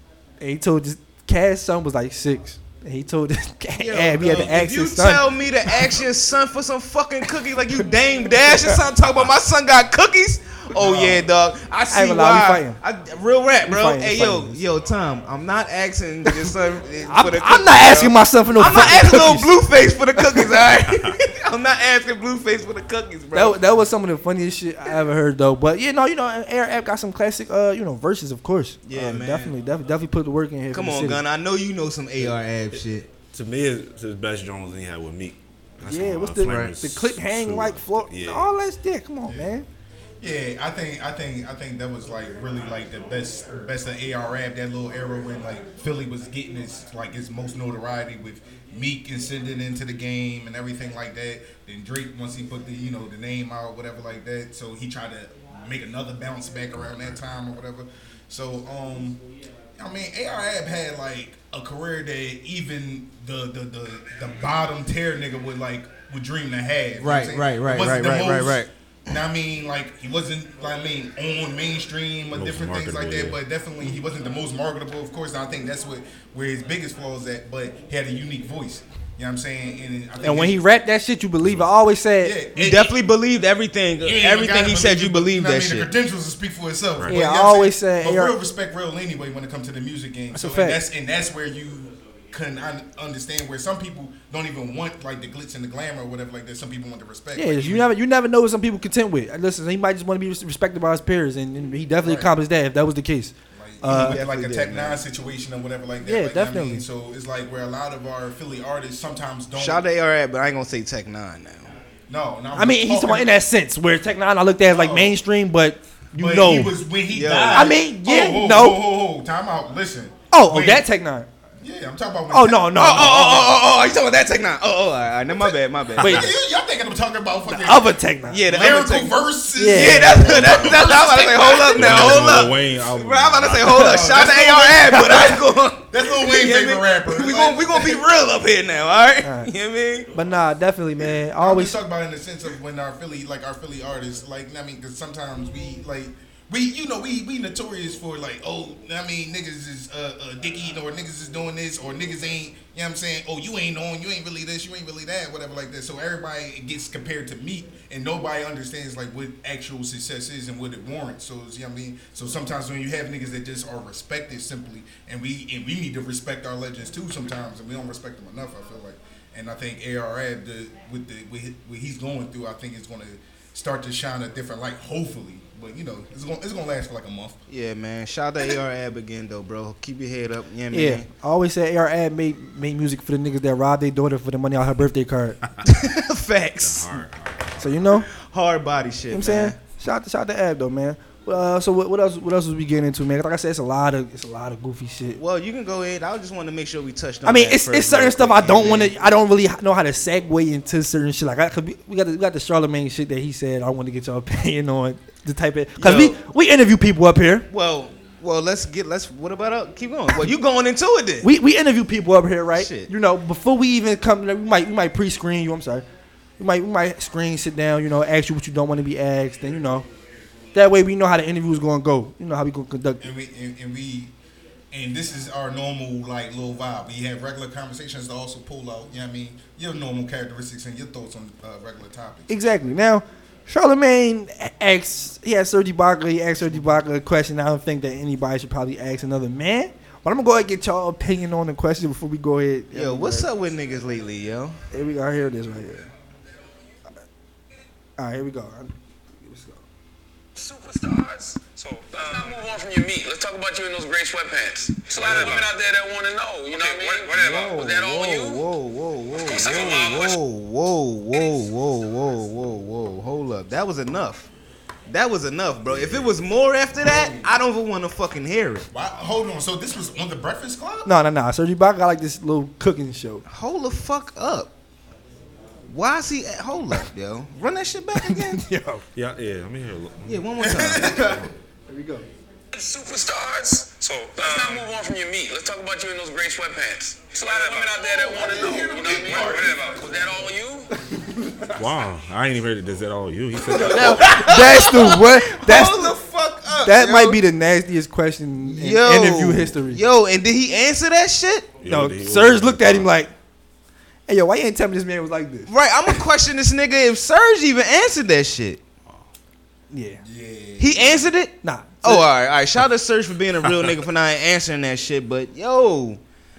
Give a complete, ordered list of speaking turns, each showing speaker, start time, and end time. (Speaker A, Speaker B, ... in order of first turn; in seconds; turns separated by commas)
Speaker A: 0.4-5.7, Speaker B: 3.8-23.6, Speaker C: 10.7-11.2, Speaker A: 11.9-12.8, Speaker A: 13.7-14.6, Speaker A: 17.1-19.5, Speaker A: 23.3-31.2, Speaker B: 28.9-29.5, Speaker B: 30.7-33.1, Speaker D: 33.3-38.5, Speaker A: 35.8-39.7, Speaker B: 36.4-36.7, Speaker C: 39.2-39.5, Speaker C: 40.2-59.2, Speaker C: 59.8-80.6, Speaker B: 67.0-68.7, Speaker D: 72.3-73.4, Speaker A: 80.2-82.3, Speaker C: 82.2-83.0, Speaker B: 82.5-85.9, Speaker C: 84.0-97.9, Speaker A: 87.1-88.3, Speaker A: 90.3-90.8, Speaker A: 97.3-104.2, Speaker C: 102.0-102.3, Speaker C: 103.5-109.8, Speaker B: 103.8-105.0, Speaker A: 106.0-106.8, Speaker B: 109.5-111.7, Speaker C: 112.1-113.3, Speaker A: 112.5-116.8, Speaker C: 114.7-115.2, Speaker C: 116.1-120.8, Speaker B: 117.1-117.7, Speaker A: 117.5-118.8, Speaker A: 120.3-121.3, Speaker C: 121.6-123.3, Speaker A: 122.3-123.5, Speaker B: 122.7-126.3, Speaker A: 126.0-126.2, Speaker C: 126.0-127.9, Speaker A: 127.5-128.4, Speaker B: 128.3-129.2, Speaker C: 128.4-132.2, Speaker A: 129.6-130.7, Speaker B: 129.7-140.1, Speaker D: 131.8-133.9, Speaker C: 133.8-138.0, Speaker A: 139.2-139.5, Speaker A: 140.1-141.8, Speaker C: 141.4-177.4, Speaker B: 177.5-181.1, Speaker A: 180.7-185.4, Speaker B: 185.6-187.0, Speaker D: 186.6-188.0, Speaker A: 187.6-188.1, Speaker B: 188.2-189.6, Speaker A: 189.1-195.2, Speaker B: 195.2-198.9, Speaker A: 197.2-207.4, Speaker B: 205.8-206.2, Speaker B: 207.5-211.3, Speaker A: 211.2-215.8, Speaker B: 212.5-212.9, Speaker A: 216.4-219.8, Speaker A: 220.5-223.1, Speaker C: 223.0-224.1, Speaker C: 224.7-232.3, Speaker A: 232.3-243.3, Speaker B: 242.7-244.6, Speaker A: 244.7-245.9, Speaker A: 248.0-249.6, Speaker E: 250.4-258.4, Speaker D: 254.9-255.5, Speaker B: 257.1-264.3, Speaker E: 259.3-260.2, Speaker B: 264.9-268.7, Speaker D: 265.7-266.0, Speaker C: 266.8-267.3, Speaker C: 268.7-270.9, Speaker A: 270.9-273.2, Speaker B: 273.3-274.5, Speaker B: 275.7-278.4, Speaker A: 278.0-278.8, Speaker D: 278.9-280.2, Speaker B: 280.0-281.3, Speaker C: 280.4-281.1, Speaker A: 281.7-282.1, Speaker E: 282.5-290.7, Speaker C: 287.8-290.2, Speaker A: 290.9-291.5, Speaker D: 291.6-294.2, Speaker A: 293.5-295.9, Speaker B: 293.8-297.2, Speaker A: 296.6-299.8, Speaker B: 298.4-301.5, Speaker D: 301.6-302.9, Speaker A: 301.6-303.1, Speaker A: 304.1-305.5, Speaker B: 305.5-308.6, Speaker A: 309.7-310.0, Speaker C: 310.0-311.0, Speaker B: 310.6-316.0, Speaker A: 311.4-312.1